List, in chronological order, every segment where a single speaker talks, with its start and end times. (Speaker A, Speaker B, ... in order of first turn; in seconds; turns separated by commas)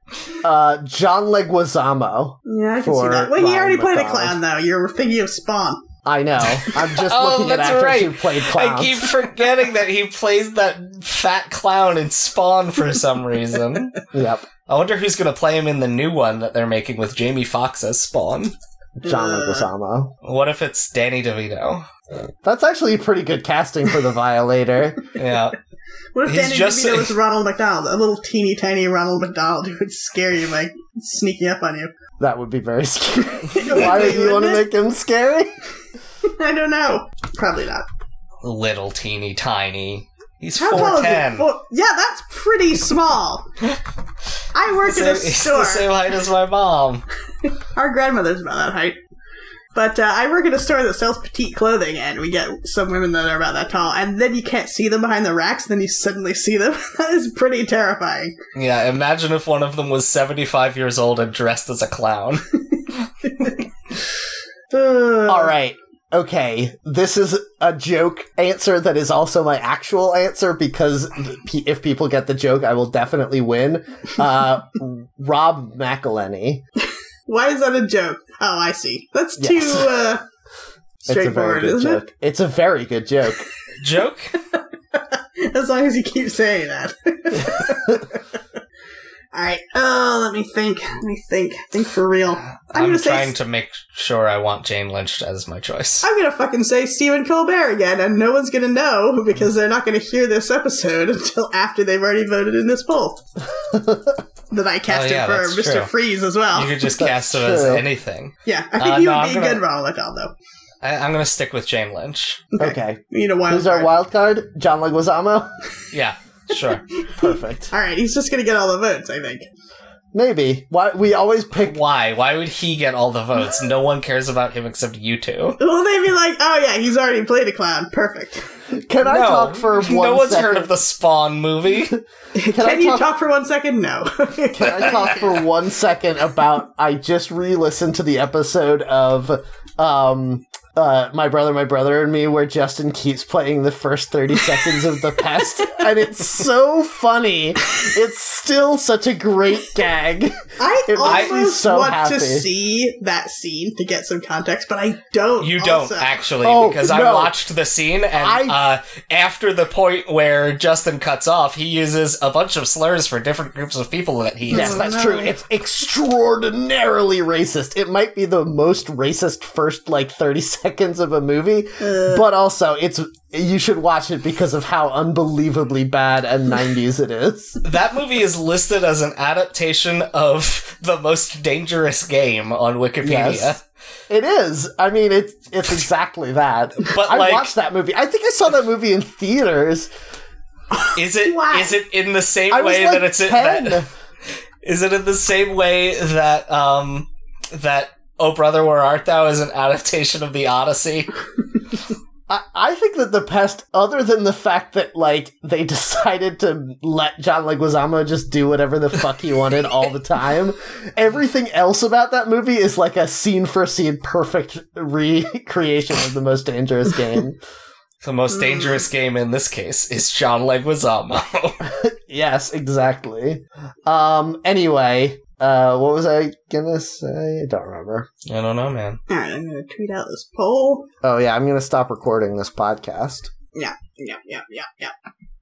Speaker A: 0.4-4.4, Speaker B: 2.5-5.8, Speaker A: 6.0-9.1, Speaker C: 7.0-14.0, Speaker A: 14.1-14.5, Speaker C: 14.7-18.5, Speaker A: 19.0-20.1, Speaker B: 19.0-19.7, Speaker C: 20.2-21.9, Speaker A: 22.4-25.0, Speaker C: 25.2-25.6, Speaker B: 26.1-31.9, Speaker C: 26.2-27.2, Speaker A: 32.2-35.5, Speaker B: 33.5-34.6, Speaker B: 36.4-37.9, Speaker C: 38.4-41.5, Speaker B: 40.6-43.4, Speaker B: 44.5-46.0, Speaker C: 44.8-47.0, Speaker B: 47.7-49.0, Speaker B: 49.7-58.4, Speaker C: 58.5-62.5, Speaker B: 64.7-65.5, Speaker A: 65.3-76.6, Speaker B: 77.3-80.2, Speaker A: 79.4-79.9, Speaker B: 81.1-82.0, Speaker A: 81.1-83.5, Speaker C: 83.8-84.4, Speaker B: 84.5-88.2, Speaker B: 89.3-93.3, Speaker C: 92.4-96.1, Speaker B: 96.0-103.2, Speaker A: 103.7-104.2, Speaker B: 104.5-106.8, Speaker C: 104.9-105.9, Speaker C: 106.5-109.6, Speaker A: 106.9-107.8, Speaker B: 108.5-110.3, Speaker C: 110.8-112.5, Speaker B: 112.6-113.9, Speaker A: 112.6-115.5, Speaker C: 115.9-116.8, Speaker B: 117.1-119.5, Speaker A: 117.2-117.7, Speaker A: 120.1-121.8, Speaker C: 121.5-125.6, Speaker B: 125.6-128.5, Speaker A: 128.8-130.7, Speaker C: 129.0-131.9, Speaker A: 131.8-133.1, Speaker B: 132.3-135.4, Speaker A: 134.5-152.5, Speaker B: 150.6-156.2, Speaker C: 151.0-151.4, Speaker C: 155.4-165.1, Speaker A: 156.4-157.4, Speaker A: 158.2-158.6, Speaker B: 164.5-165.3, Speaker A: 164.5-177.6, Speaker B: 171.8-172.2, Speaker C: 177.6-183.6, Speaker A: 183.0-183.6, Speaker A: 184.1-189.9, Speaker C: 186.8-187.5, Speaker B: 190.8-191.8, Speaker C: 191.0-193.8, Speaker A: 192.5-193.9, Speaker C: 194.6-201.1, Speaker A: 202.3-217.4, Speaker C: 218.0-221.6, Speaker B: 218.3-218.8, Speaker A: 221.7-228.1, Speaker C: 228.3-229.0, Speaker B: 229.1-230.9, Speaker A: 231.0-233.3, Speaker B: 233.5-234.9